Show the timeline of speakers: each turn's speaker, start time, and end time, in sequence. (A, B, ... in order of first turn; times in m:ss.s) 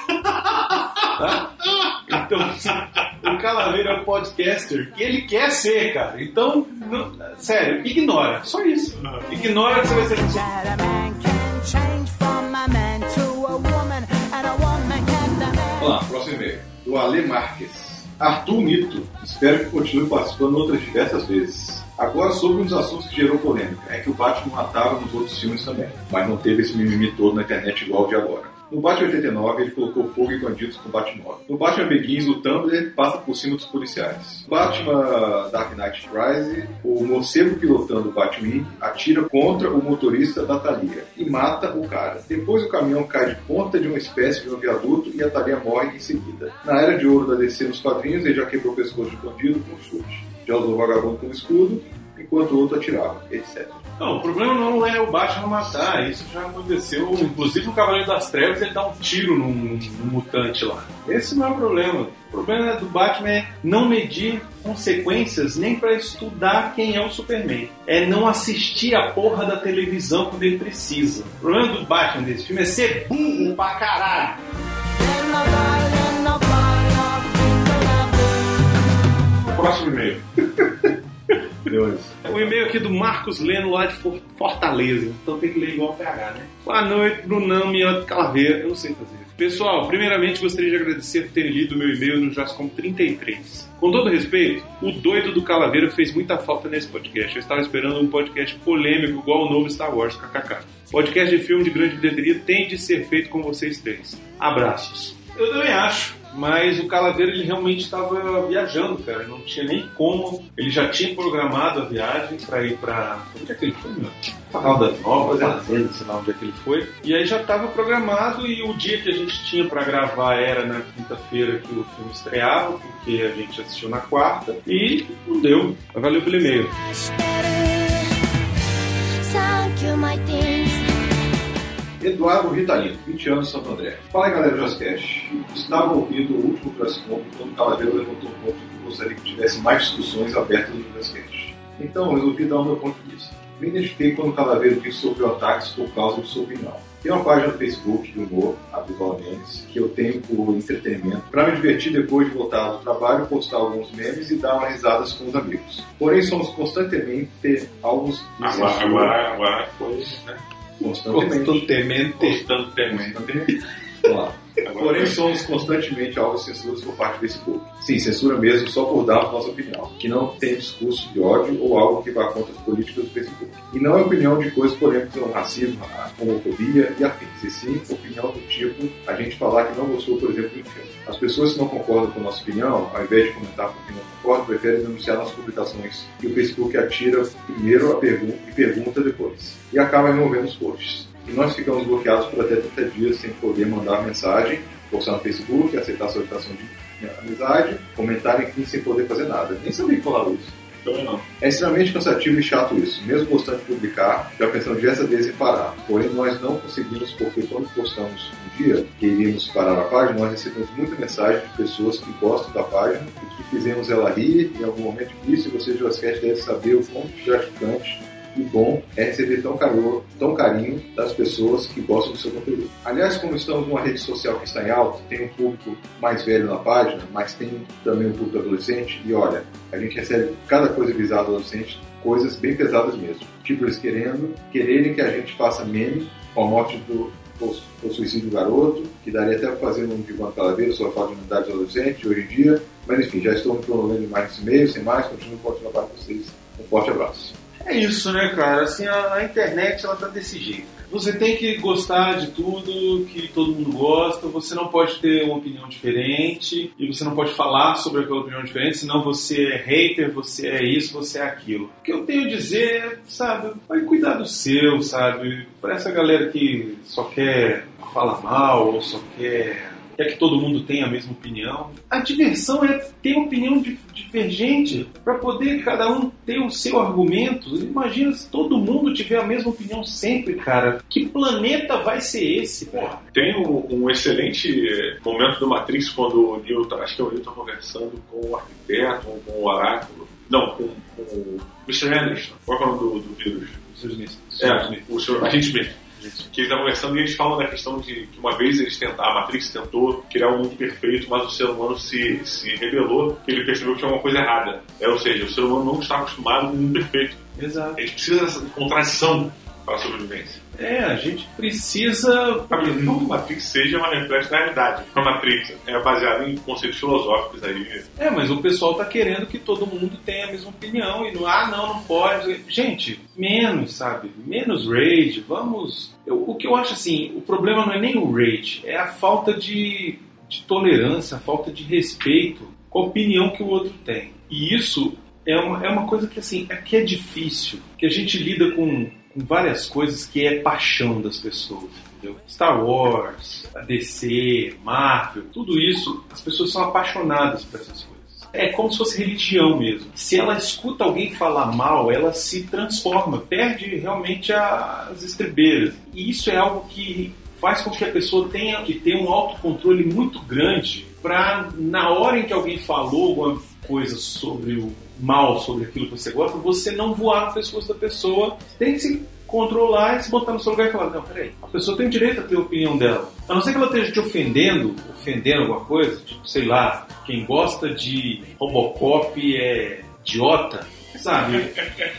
0:01.2-0:10.6 A
0:10.6-0:15.6 B
0:15.8-0:53.8 C
0:54.0-1:14.4 A
1:15.1-1:17.3 B
1:19.5-1:20.3 D
1:21.7-1:22.5 C
1:22.2-2:06.7 A
1:54.6-1:55.7 C
2:06.5-2:08.2 E
2:09.2-2:10.9 E
2:12.0-2:39.2 C
2:38.4-2:40.4 D
2:40.8-2:41.7 C
2:41.1-2:42.4 A
2:42.2-2:43.3 D
2:42.9-2:43.5 C
2:44.0-3:20.5 C
2:44.6-2:45.2 D
3:20.8-3:21.2 D
3:21.4-4:07.3 C
4:07.6-4:43.0 A
4:42.9-4:53.6 D
4:53.7-4:55.4 A
4:54.4-4:55.8 D
4:55.9-4:56.3 A
4:56.3-5:07.2 D
5:07.4-5:07.8 A
5:07.8-5:10.4 D
5:10.6-5:13.0 A
5:12.5-5:17.9 D
5:18.0-6:21.6 A